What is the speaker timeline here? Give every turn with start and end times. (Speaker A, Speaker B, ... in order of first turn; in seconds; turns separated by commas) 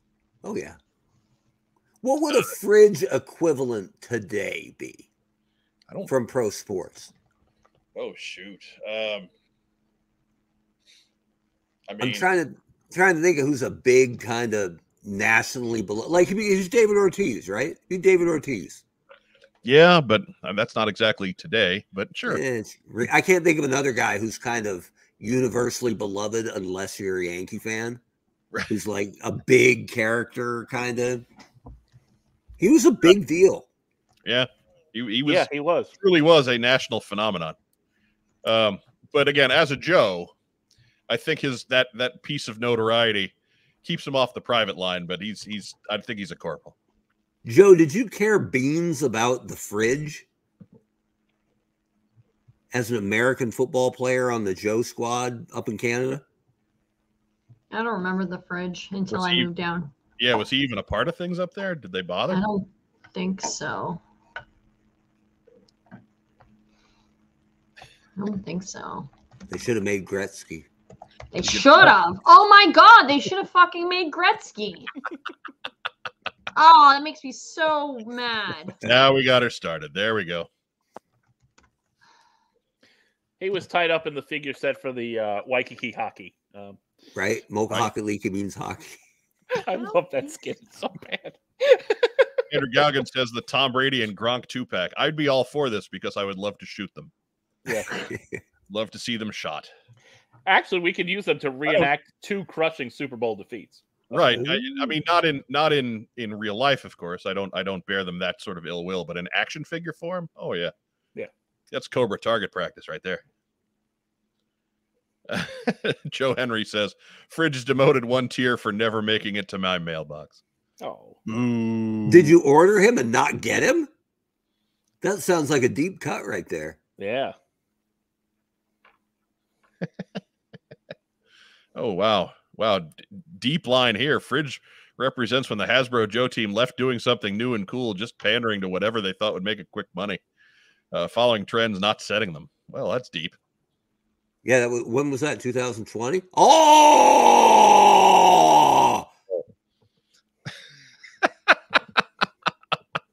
Speaker A: 0.4-0.8, Speaker A: 2.0-5.1, Speaker A: 6.1-7.1, Speaker B: 8.0-9.3, Speaker B: 11.9-12.3, Speaker A: 12.0-18.8, Speaker B: 19.6-22.4, Speaker A: 22.3-28.0, Speaker A: 28.7-31.2, Speaker A: 32.6-33.7, Speaker B: 34.3-35.5, Speaker C: 35.3-35.9, Speaker B: 36.0-37.6, Speaker B: 38.4-40.3, Speaker B: 41.1-43.3, Speaker B: 43.8-46.8, Speaker A: 47.5-50.3, Speaker A: 52.7-56.2, Speaker D: 57.7-59.9, Speaker B: 59.1-59.5, Speaker B: 60.2-62.4, Speaker D: 62.3-64.0, Speaker D: 68.2-69.1, Speaker A: 69.5-70.7, Speaker D: 71.3-74.9, Speaker B: 71.4-71.9, Speaker D: 76.5-78.8, Speaker B: 78.8-80.5, Speaker C: 83.4-86.8, Speaker A: 87.2-89.0, Speaker C: 89.5-92.3, Speaker B: 92.5-97.1, Speaker C: 97.7-97.9, Speaker A: 98.1-98.4, Speaker B: 98.7-99.7, Speaker C: 100.5-103.8, Speaker B: 104.1-110.7, Speaker A: 104.3-104.7, Speaker B: 111.7-113.2, Speaker B: 115.3-120.4, Speaker C: 120.8-121.2, Speaker B: 121.3-122.3, Speaker A: 122.1-123.9, Speaker A: 125.0-126.8, Speaker C: 127.0-127.4, Speaker B: 131.8-140.2, Speaker B: 140.9-143.4, Speaker A: 144.4-149.1